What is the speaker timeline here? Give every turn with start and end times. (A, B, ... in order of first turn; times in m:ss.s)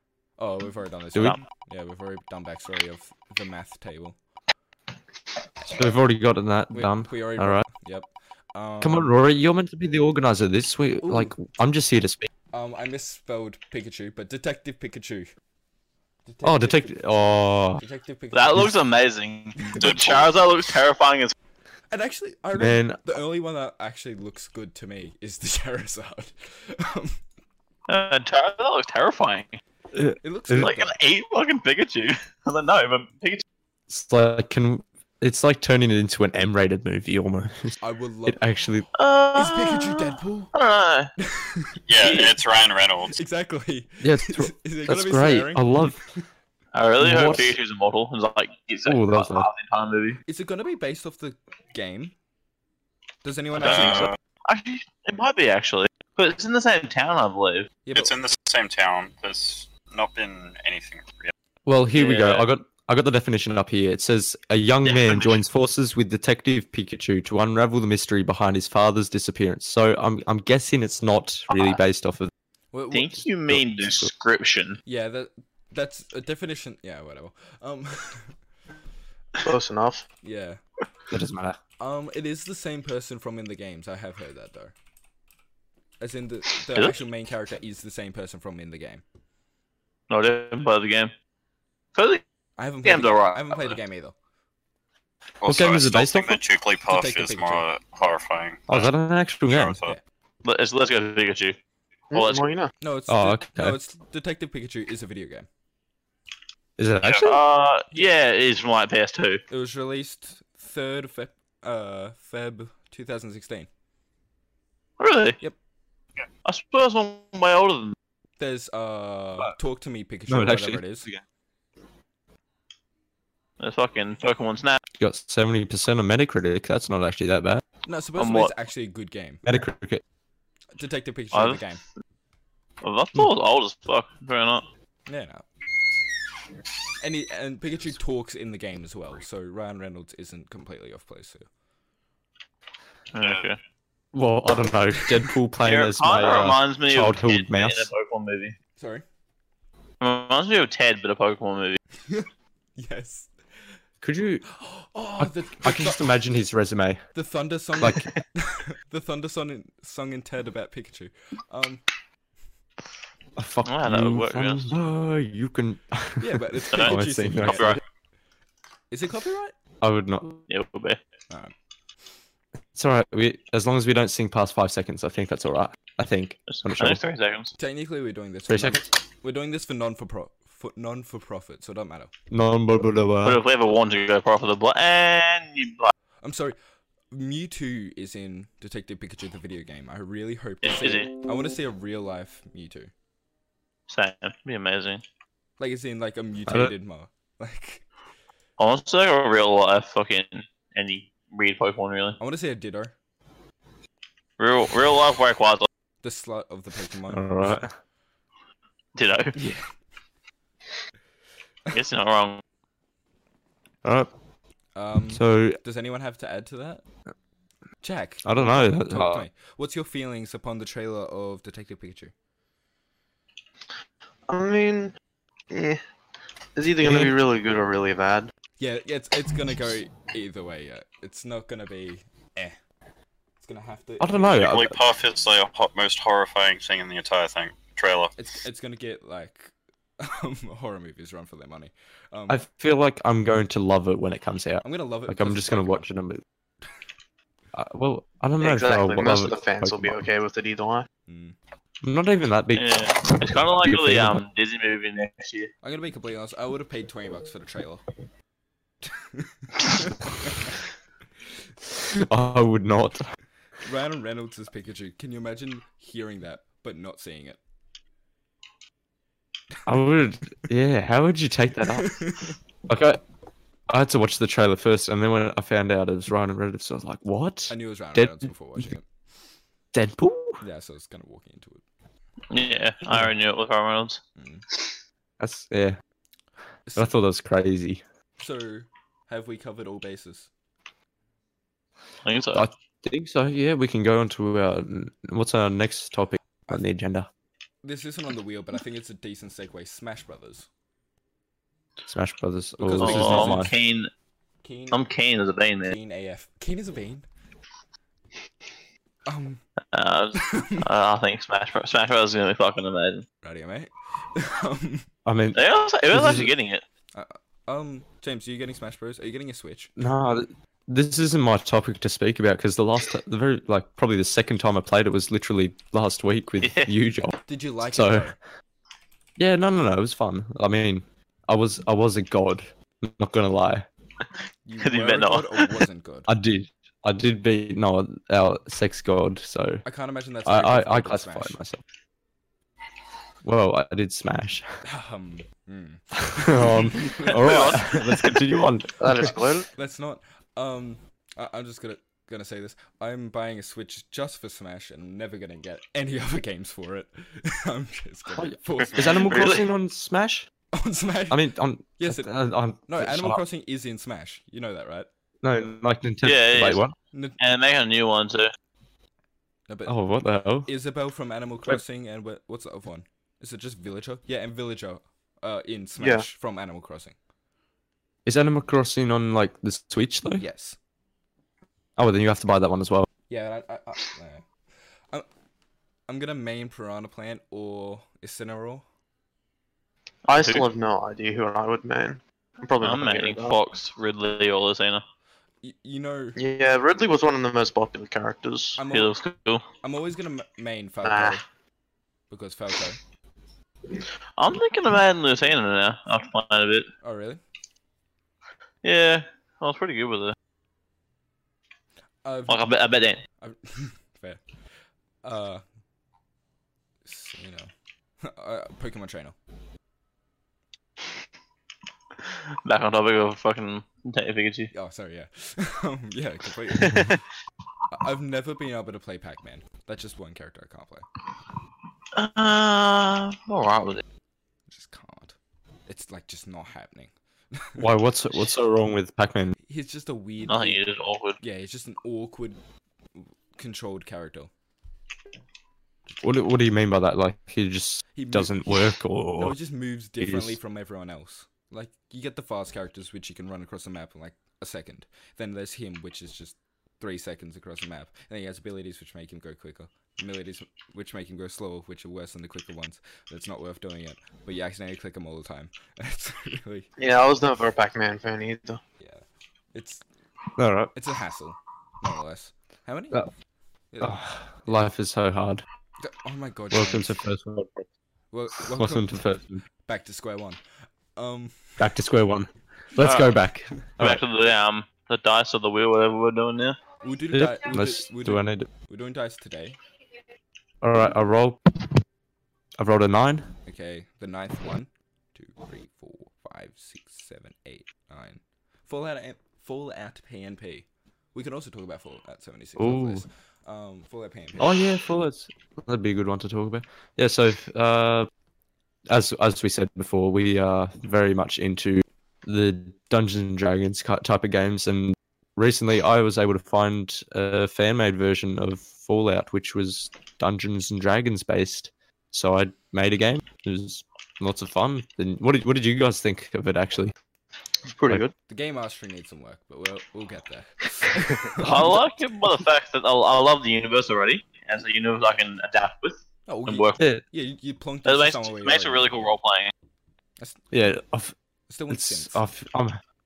0:00.4-0:04.2 A
0:05.7-0:07.6 B
0:06.7-0:09.1 A
0:08.8-0:12.3 B
0:11.0-0:11.4 A
0:12.5-0:15.3 A
0:16.3-0:18.8 A
0:16.4-0:17.8 B
0:18.3-0:21.3 C
0:19.7-0:20.4 D
0:21.9-0:27.2 A
0:22.6-0:23.0 B
0:27.9-0:29.6 C
0:29.9-0:30.7 B
0:30.2-0:30.9 A
0:30.6-0:33.4 C
0:33.9-0:37.7 B
0:37.8-0:38.4 A
0:38.3-0:38.9 B
0:39.0-0:41.1 C
0:39.3-0:40.5 A
0:41.2-0:41.8 A
0:41.9-0:43.2 D
0:43.1-0:46.2 A
0:44.0-0:46.0 B
0:46.7-0:50.2 C
0:47.0-0:47.5 B
0:48.9-0:49.5 B
0:50.3-0:52.2 A
0:53.2-0:54.1 A
0:53.6-0:57.7 C
0:53.6-0:54.1 D
0:57.9-0:58.1 A
0:57.9-1:01.3 D
1:01.7-1:12.3 B
1:02.0-1:02.4 C
1:04.9-1:05.3 C
1:11.5-1:11.8 C
1:12.7-1:13.2 A
1:12.9-1:14.8 C
1:13.5-1:14.1 B
1:14.9-1:18.4 A
1:19.4-1:20.0 E
1:20.2-1:20.6 A
1:21.1-1:21.6 B
1:21.8-1:24.7 A
1:26.0-1:29.0 A
1:30.1-1:31.1 C
1:32.0-1:32.2 C
1:32.6-1:34.1 A
1:32.8-1:33.8 C
1:35.4-1:38.9 D
1:35.4-1:36.4 B
1:36.9-1:37.6 A
1:38.7-1:39.8 B
1:39.5-1:40.0 D
1:40.4-1:41.6 C
1:42.1-1:42.7 E
1:42.1-1:42.4 C
1:42.8-1:45.5 A
1:43.1-1:43.8 B
1:46.8-1:47.4 B
1:47.2-1:49.4 C
1:49.5-1:53.7 A
1:55.0-1:55.4 C
1:56.4-1:58.0 C
1:58.4-2:01.1 A
2:00.3-2:01.2 B
2:03.6-2:04.8 C
2:05.0-2:07.6 B
2:07.9-2:09.4 A
2:08.2-2:08.5 C
2:09.4-2:10.0 B
2:10.8-2:11.8 A
2:11.3-2:11.6 C
2:12.8-2:14.7 C
2:15.1-2:15.4 A
2:17.0-2:21.5 A
2:23.1-2:23.6 C
2:24.1-2:27.9 B
2:25.6-2:28.6 C
2:28.8-2:29.0 A
2:30.0-2:31.8 C
2:32.0-2:33.3 A
2:34.0-2:34.4 B
2:34.5-2:36.1 A
2:35.2-2:37.0 B
2:37.1-2:41.8 A
2:37.8-2:38.1 B
2:43.4-2:47.8 B
2:43.7-2:44.7 C
2:46.2-2:47.8 A
2:46.7-2:47.8 C
2:48.9-2:49.6 A
2:49.8-2:50.4 B
2:50.5-2:51.0 C
2:52.7-2:57.0 B
2:56.5-2:57.5 C
2:57.6-3:02.1 A
2:58.5-2:58.9 B
3:02.3-3:03.4 B
3:03.2-3:05.9 C
3:06.2-3:06.6 A
3:07.1-3:12.9 A
3:10.6-3:11.1 C
3:13.9-3:15.0 C
3:15.6-3:17.8 A
3:16.5-3:16.7 B
3:18.6-3:22.2 C
3:22.2-3:22.9 A
3:24.4-3:25.7 C
3:26.0-3:27.5 A
3:27.1-3:27.7 B
3:29.0-3:29.4 C
3:29.4-3:29.7 A
3:31.7-3:32.4 C
3:33.8-3:34.1 B
3:34.8-3:36.8 A
3:35.1-3:35.6 B
3:37.8-3:42.1 A
3:38.2-3:39.3 B
3:44.3-3:44.9 E
3:45.5-3:45.8 E
3:46.6-3:48.3 E
3:46.8-3:47.2 B
3:48.6-3:52.6 A
3:53.4-3:54.4 A
3:54.0-3:54.8 B
3:54.3-3:58.2 D
3:58.2-4:02.4 A
4:02.3-4:06.2 B
4:04.6-4:05.9 A
4:07.5-4:10.0 B
4:08.4-4:10.9 E
4:11.1-4:11.4 A
4:11.8-4:14.2 B
4:12.6-4:15.5 C
4:15.6-4:17.9 A
4:19.0-4:20.5 A
4:21.8-4:23.0 B
4:23.6-4:27.4 A
4:29.7-4:32.0 B
4:31.7-4:32.4 A
4:32.7-4:33.0 B
4:33.7-4:38.6 B
4:37.5-4:38.9 A
4:39.7-4:40.4 B
4:40.4-4:41.6 A
4:42.3-4:44.0 C
4:44.2-4:44.4 A
4:45.2-4:45.8 B
4:46.7-4:46.9 A
4:46.8-4:47.8 B
4:48.2-4:50.3 A
4:52.0-4:52.4 C
4:52.3-4:57.1 B
4:57.6-5:00.5 A
5:01.9-5:03.5 B
5:02.6-5:03.5 A
5:02.8-5:03.9 C
5:04.4-5:04.9 A
5:04.7-5:05.8 C
5:05.7-5:07.1 A
5:09.1-5:09.4 A
5:09.7-5:13.0 C
5:10.2-5:10.6 A
5:13.2-5:14.9 A
5:15.1-5:16.3 B
5:15.4-5:16.6 C
5:16.9-5:19.7 A
5:19.8-5:28.1 B
5:26.4-5:26.7 C
5:27.3-5:28.2 A
5:29.2-5:33.7 B
5:34.5-5:36.1 A
5:34.6-5:35.6 C
5:36.1-5:39.6 B
5:39.6-5:41.4 A
5:40.2-5:41.6 B
5:43.2-5:44.5 B
5:44.6-5:47.8 A
5:46.0-5:49.1 B
5:47.0-5:48.3 C
5:48.8-5:49.5 E
5:49.5-5:59.2 A
5:58.2-6:00.3 B
5:59.0-5:59.4 C
6:00.5-6:02.1 A
6:01.1-6:03.2 B
6:02.7-6:04.9 A
6:05.2-6:06.8 B
6:06.0-6:06.6 C
6:06.9-6:07.2 A
6:07.2-6:08.3 C
6:09.5-6:09.8 A
6:09.7-6:10.5 B
6:10.5-6:17.0 A
6:15.8-6:16.1 E
6:18.0-6:20.2 B
6:20.2-6:20.6 A
6:21.8-6:22.9 B
6:23.1-6:24.3 A
6:25.9-6:28.6 A
6:30.1-6:33.4 E
6:30.2-6:30.5 C
6:32.6-6:34.8 C
6:35.4-6:36.2 A
6:36.2-6:38.6 E
6:38.6-6:39.0 A
6:38.7-6:39.4 C
6:39.6-6:41.2 A
6:40.8-6:41.2 E
6:42.1-6:42.8 A
6:44.2-6:46.7 C
6:46.8-6:47.2 A
6:48.6-6:50.2 C
6:52.0-6:52.4 A
6:52.3-6:53.0 C
6:53.2-6:54.2 A
6:55.0-6:55.4 A
6:56.8-6:57.5 A
6:58.0-6:59.2 A
7:02.4-7:04.5 C
7:04.5-7:07.0 A
7:07.7-7:10.9 A
7:12.0-7:13.8 C
7:14.5-7:15.2 A
7:15.7-7:17.7 A
7:17.6-7:19.4 B
7:19.4-7:20.6 A
7:20.3-7:21.2 C
7:21.2-7:22.4 A
7:23.0-7:24.3 A
7:26.0-7:29.4 B
7:28.0-7:28.3 A
7:29.2-7:46.7 A
7:30.0-7:30.4 B
7:46.8-7:48.6 E
7:49.5-7:49.8 A
7:50.4-7:50.7 B
7:50.7-7:53.0 A
7:53.7-7:54.6 A
7:53.8-7:55.4 B
7:55.8-7:57.0 A
7:56.5-7:57.7 B
7:58.1-7:59.0 A
7:58.4-7:59.4 B
7:59.6-8:00.4 A
8:01.0-8:01.6 A
8:01.6-8:04.0 B
8:02.8-8:03.1 C
8:03.8-8:06.6 C
8:06.8-8:09.6 A
8:07.1-8:08.5 B
8:10.6-8:11.4 B
8:12.6-8:13.3 B
8:13.5-8:24.5 A
8:22.6-8:23.0 B
8:24.4-8:28.1 B
8:28.9-8:46.9 B
8:47.7-8:48.1 E
8:48.3-8:51.8 A
8:51.4-8:56.8 C
8:51.4-8:51.8 B
8:56.3-8:58.9 A
8:57.8-8:59.5 C
9:00.5-9:01.2 B
9:01.5-9:02.2 A
9:01.7-9:02.8 B